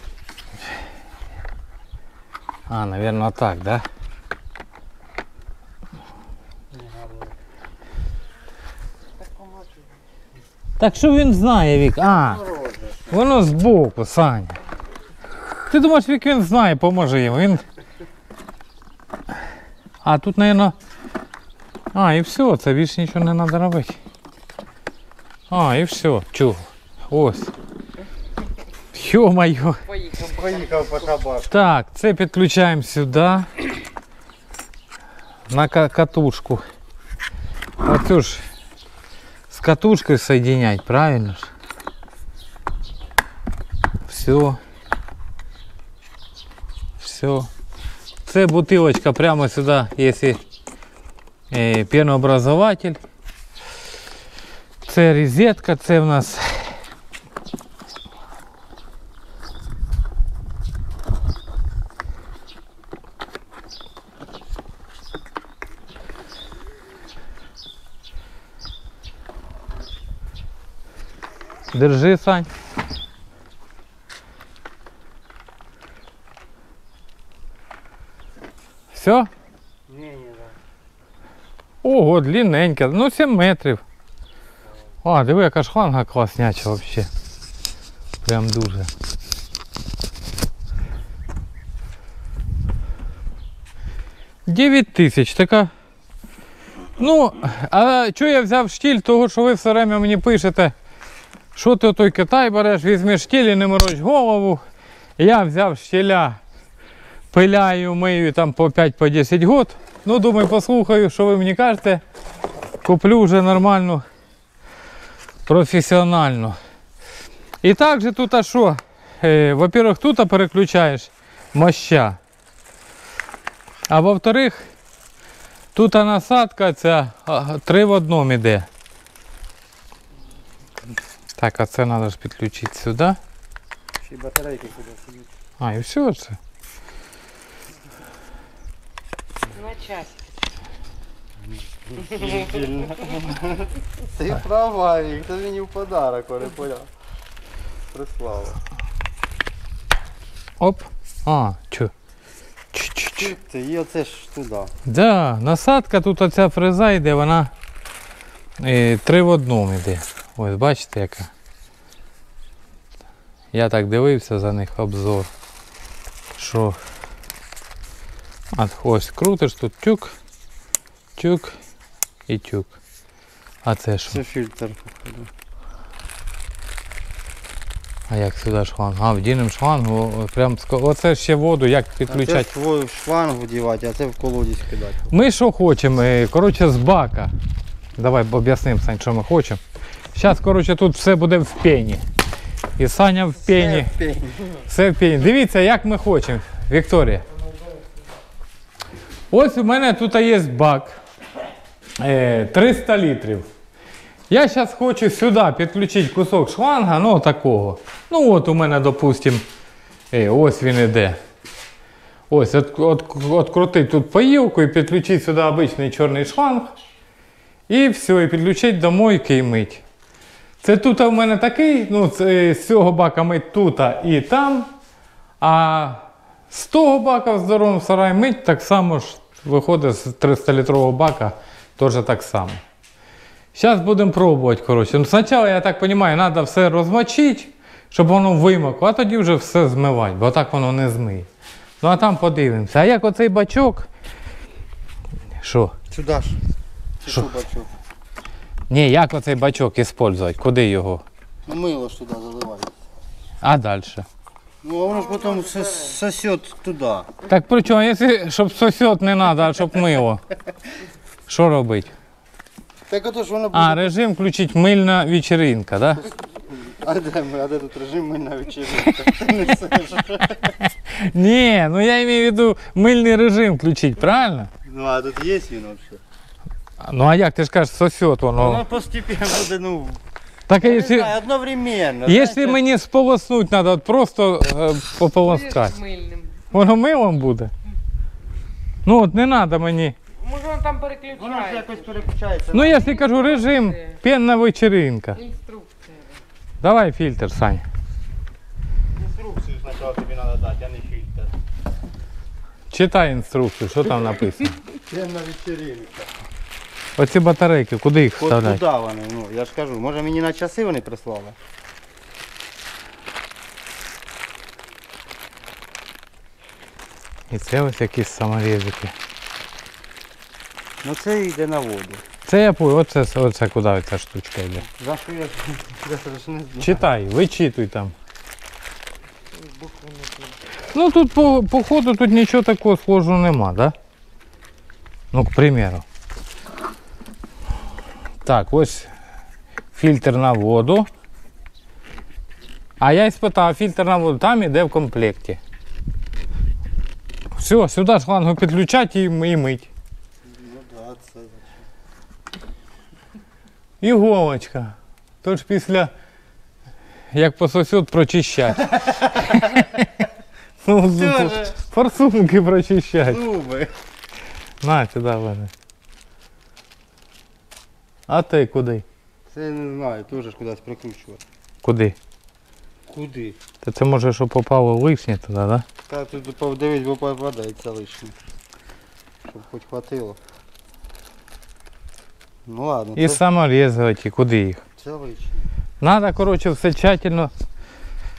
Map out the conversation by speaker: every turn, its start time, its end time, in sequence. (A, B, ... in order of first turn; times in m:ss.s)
0:02.7-0:03.8 A
0:06.7-0:07.4 B
0:09.2-0:09.9 C
0:10.8-0:12.4 A
0:12.1-0:13.2 B
0:13.1-0:14.6 A
0:15.6-0:17.6 A
0:20.0-0:20.7 A
0:21.9-0:24.0 A
0:25.5-0:27.5 A
0:28.9-0:29.8 A
0:29.8-0:31.1 C
0:30.2-0:31.7 B
0:31.5-0:33.5 A
0:35.5-0:36.6 A
0:37.8-0:38.4 A
0:39.5-0:41.5 A
0:44.1-0:44.6 A
0:47.0-0:47.5 A
0:48.2-0:50.4 A
0:51.5-0:53.0 A
0:54.8-0:56.7 A
1:11.7-1:12.5 A
1:18.9-1:19.3 A
1:19.9-1:20.5 B
1:21.8-1:23.8 A
1:25.0-1:27.1 A
1:28.2-1:28.9 A
1:34.5-1:35.7 A
1:37.0-1:40.7 A
1:41.5-1:44.6 A
1:45.2-1:46.4 A
1:47.3-1:52.0 A
1:52.8-1:54.0 A
1:55.4-1:56.6 A
1:57.6-2:02.2 A
2:03.9-2:04.6 A
2:05.7-2:08.7 A
2:11.4-2:13.2 A
2:14.0-2:15.3 B
2:15.6-2:16.4 A
2:19.5-2:20.3 C
2:21.4-2:26.9 B
2:27.9-2:28.6 B
2:30.6-2:31.9 A
2:32.7-2:33.3 A
2:33.2-2:34.7 B
2:34.9-2:37.5 A
2:38.6-2:41.3 A
2:43.5-2:45.3 A
2:46.4-2:46.8 A
2:48.5-2:50.1 A
2:51.2-2:51.6 A
2:52.3-2:52.8 A
2:53.6-2:54.2 A
2:54.1-2:55.3 B
2:58.1-3:02.5 A
3:02.1-3:05.1 B
3:05.1-3:07.3 A
3:08.0-3:09.6 A
3:10.1-3:12.0 A
3:12.8-3:13.9 A
3:13.4-3:14.6 B
3:14.7-3:17.2 A
3:17.3-3:17.8 C
3:19.3-3:21.0 A
3:22.0-3:23.4 A
3:24.3-3:29.4 A
3:30.1-3:31.2 A
3:32.3-3:36.7 A
3:37.7-3:39.8 A
3:40.6-3:44.7 A
3:45.4-3:52.6 A
3:53.5-4:01.3 A
4:01.8-4:03.9 A
4:05.4-4:05.7 A
4:05.9-4:06.4 B
4:07.0-4:07.7 B
4:08.7-4:11.0 A
4:11.4-4:12.7 B
4:13.4-4:14.0 A
4:14.6-4:17.1 B
4:14.9-4:15.9 C
4:17.3-4:20.2 A
4:21.3-4:21.9 A
4:22.9-4:24.0 B
4:23.5-4:26.1 A
4:26.0-4:30.6 B
4:30.6-4:34.5 A
4:34.6-4:36.0 B
4:36.8-4:38.6 A
4:38.4-4:42.6 B
4:40.5-4:41.1 A
4:42.0-4:45.8 A
4:45.2-4:46.4 C
4:46.5-4:47.5 A
4:48.8-4:50.0 A
4:50.2-4:52.0 C
4:51.1-4:53.0 B
4:52.5-4:55.2 A
4:52.6-4:54.0 C
4:55.1-4:56.2 C
4:56.6-4:57.6 A
4:58.9-5:01.4 B
5:02.7-5:04.6 A
5:04.8-5:06.2 B
5:07.0-5:08.6 A
5:08.2-5:11.4 B
5:17.3-5:18.9 A
5:20.8-5:22.0 B
5:22.2-5:24.6 A
5:24.6-5:26.9 B
5:26.6-5:27.9 A
5:29.3-5:30.4 C
5:30.7-5:33.7 A
5:35.1-5:35.8 A
5:38.2-5:38.9 A
5:39.7-5:40.9 A
5:42.8-5:45.4 A
5:47.3-5:49.7 A
5:50.2-5:51.6 B
5:53.8-5:55.9 A
5:57.1-5:59.9 A
5:59.0-5:59.4 B
6:00.6-6:03.2 A
6:00.9-6:01.6 B
6:03.1-6:03.7 B
6:04.6-6:05.5 A
6:08.1-6:08.8 A
6:09.3-6:11.2 B
6:11.6-6:12.0 A
6:12.9-6:13.4 B
6:13.6-6:15.6 A
6:15.9-6:18.1 B
6:19.2-6:20.2 B
6:22.4-6:23.2 B
6:23.0-6:24.6 A
6:24.8-6:25.4 B
6:25.8-6:27.3 A